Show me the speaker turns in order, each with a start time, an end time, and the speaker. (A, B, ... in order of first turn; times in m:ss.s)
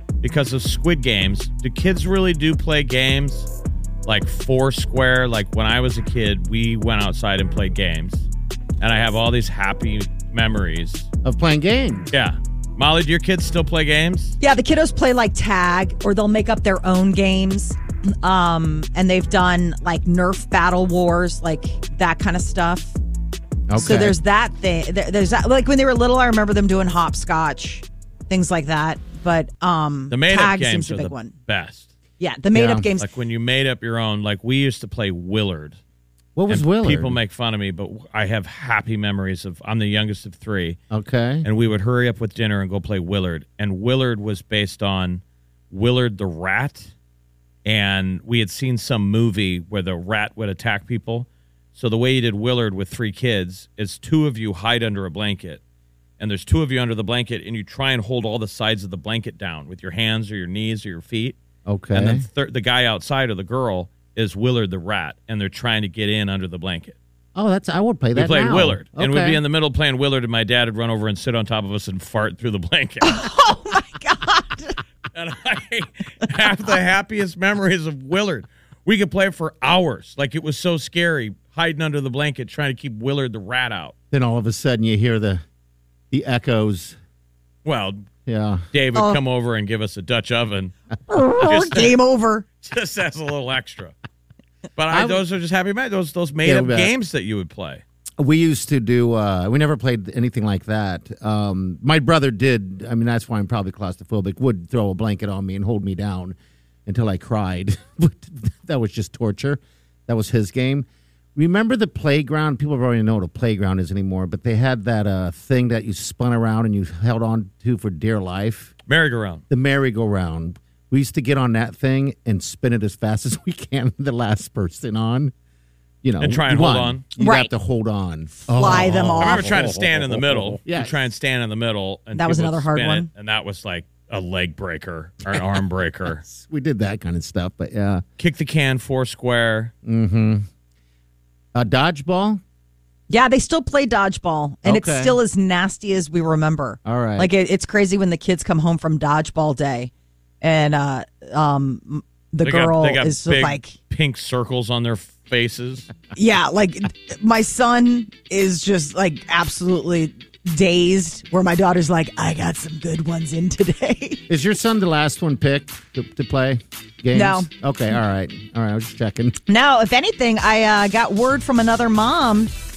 0:00.2-0:03.5 A
0:04.1-0:08.3 A
0:08.8-0:11.1 A
0:11.2-0:12.1 B
0:12.1-0:14.4 A
0:14.4-0:23.0 C
0:23.7-0:24.2 B
0:23.8-0:31.3 C
0:30.1-0:31.9 A
0:32.2-0:33.1 C
0:32.5-0:32.9 B
0:33.0-0:35.8 A
0:36.4-0:37.2 B
0:36.5-0:40.8 A
0:40.9-0:41.5 B
0:41.4-0:46.9 A
0:47.6-0:55.6 A
0:56.2-1:01.4 A
1:01.7-1:02.3 B
1:01.9-1:07.0 A
1:07.4-1:09.4 B
1:08.2-1:13.3 A
1:13.0-1:14.8 C
1:15.1-1:23.9 A
1:24.1-1:25.4 B
1:26.1-1:27.0 B
1:27.6-1:28.0 A
1:28.3-1:28.7 B
1:28.7-1:30.7 A
1:29.0-1:29.2 C
1:31.1-1:32.5 C
1:31.4-1:32.0 A
1:32.6-1:33.9 A
1:34.8-1:37.8 A
1:34.9-1:35.2 B
1:36.4-1:36.9 B
1:38.2-1:58.7 B
1:58.9-1:59.4 A
1:59.5-2:05.3 B
2:06.0-2:11.0 B
2:06.2-2:07.0 A
2:07.2-2:07.5 C
2:08.4-2:09.6 C
2:08.7-2:16.2 A
2:12.2-2:13.1 C
2:16.1-2:18.0 B
2:18.2-2:19.7 A
2:19.8-2:20.5 B
2:21.6-2:22.4 B
2:23.1-2:33.7 C
2:24.6-2:25.2 B
2:26.8-2:27.3 B
2:32.4-2:35.9 A
2:36.2-2:44.2 C
2:44.3-2:49.4 B
2:47.1-2:47.5 C
2:49.5-2:52.5 C